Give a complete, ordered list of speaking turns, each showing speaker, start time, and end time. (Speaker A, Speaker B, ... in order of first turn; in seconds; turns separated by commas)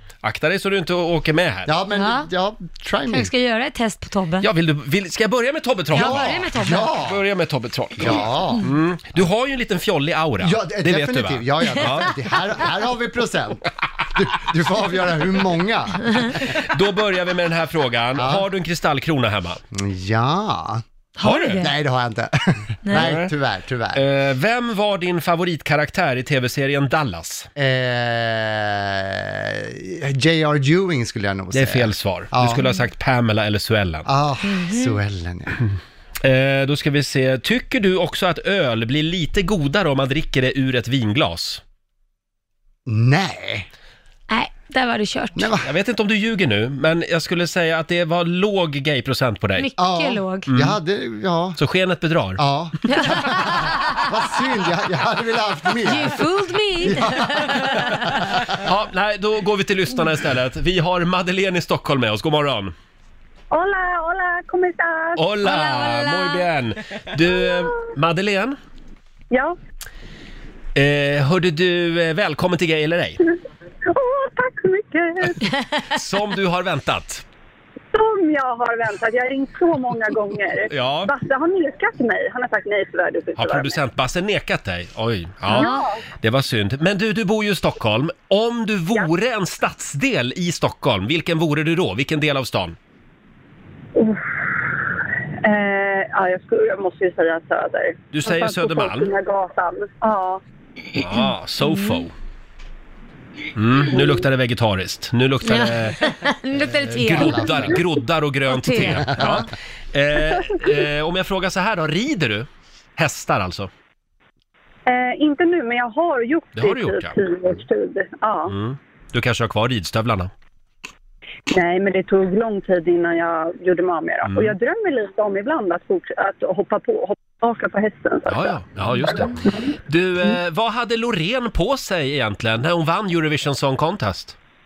Speaker A: 0.2-1.7, Speaker B: 1.6-3.3, Speaker C: 1.9-2.3, Speaker C: 3.1-4.5, Speaker A: 4.4-6.5, Speaker B: 5.9-7.2, Speaker C: 5.9-7.0, Speaker A: 7.0-12.1, Speaker B: 8.0-8.6, Speaker B: 10.4-13.6, Speaker B: 14.1-16.4, Speaker A: 16.5-19.6, Speaker B: 18.2-18.5, Speaker B: 19.7-20.8, Speaker C: 21.2-21.8, Speaker A: 21.2-21.6, Speaker B: 21.6-24.0, Speaker C: 22.9-23.1, Speaker A: 22.9-23.3, Speaker A: 23.9-27.5, Speaker B: 27.6-32.6, Speaker A: 31.5-34.1, Speaker B: 34.0-35.6, Speaker C: 34.5-35.0, Speaker A: 36.2-41.6, Speaker B: 42.9-43.7, Speaker C: 44.3-45.5, Speaker B: 45.4-45.7, Speaker A: 45.6-49.7, Speaker C: 49.6-50.5, Speaker B: 49.8-51.6, Speaker A: 50.5-50.8, Speaker A: 51.6-52.4, Speaker B: 52.4-56.2, Speaker C: 52.9-54.1, Speaker C: 55.8-58.1, Speaker B: 56.8-58.5, Speaker A: 58.5-62.7, Speaker D: 63.5-65.2, Speaker A: 65.2-68.6, Speaker C: 65.4-66.5, Speaker D: 69.3-69.5, Speaker A: 70.7-73.2, Speaker D: 73.9-75.4, Speaker A: 75.9-77.2, Speaker D: 77.9-83.8, Speaker A: 80.7-81.1, Speaker A: 83.3-92.8, Speaker C: 85.5-85.8, Speaker D: 85.5-86.0, Speaker D: 94.0-94.5, Speaker D: 95.4-100.4, Speaker A: 98.1-99.1, Speaker A: 100.9-102.1, Speaker C: 101.6-102.0, Speaker A: 103.5-106.0, Speaker C: 105.4-107.8, Speaker A: 106.8-113.7, Speaker B: 106.9-107.7, Speaker C: 108.5-109.4, Speaker B: 109.0-109.4, Speaker D: 114.9-118.5, Speaker A: 116.5-117.2, Speaker A: 118.5-120.3, Speaker D: 121.5-128.6, Speaker A: 124.2-124.5, Speaker A: 128.3-134.3